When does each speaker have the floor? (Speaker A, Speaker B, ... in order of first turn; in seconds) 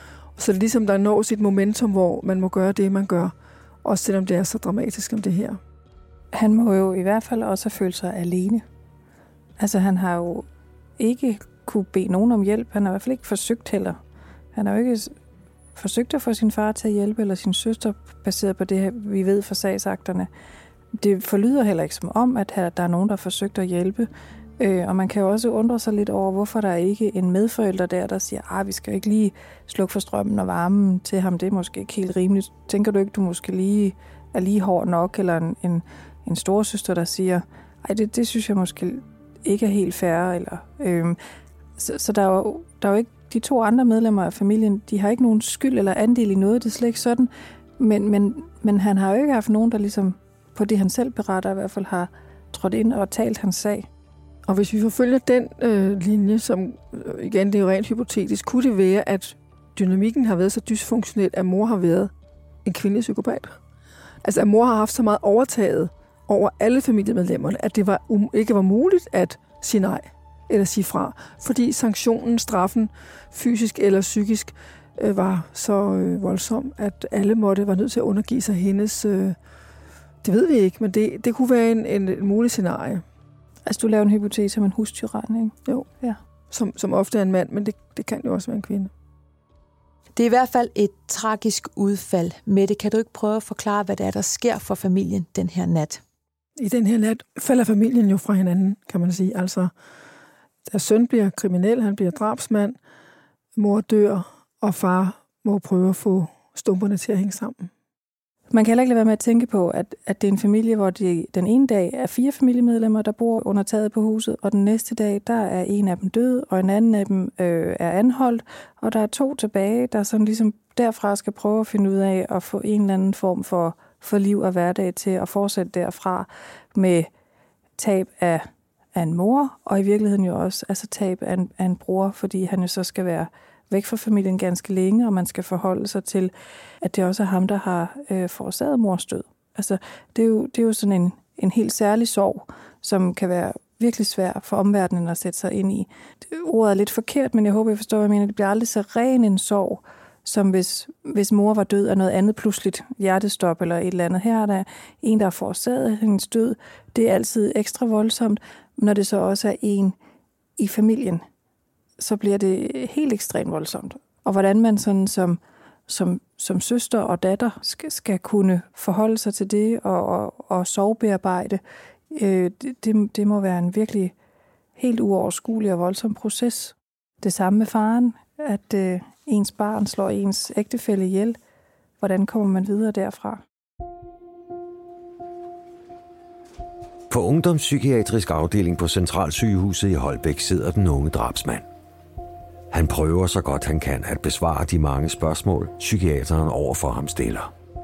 Speaker A: 0.4-5.6, 54.5-62.1, 62.6-63.6, 64.2-79.4, 80.2-83.0, 86.5-88.9, 96.6-99.7, 100.7-102.8, 103.6-107.7
Speaker B: 6.3-8.6, 9.6-10.5, 11.0-14.0, 14.5-15.1, 15.8-20.3, 20.9-41.2, 41.8-53.9, 83.7-86.2, 108.5-127.1, 127.8-160.0, 160.6-161.2, 162.0-171.6, 172.1-174.1, 174.8-181.4, 182.0-183.4
Speaker C: 90.2-96.0
Speaker D: 187.1-191.7, 192.7-197.5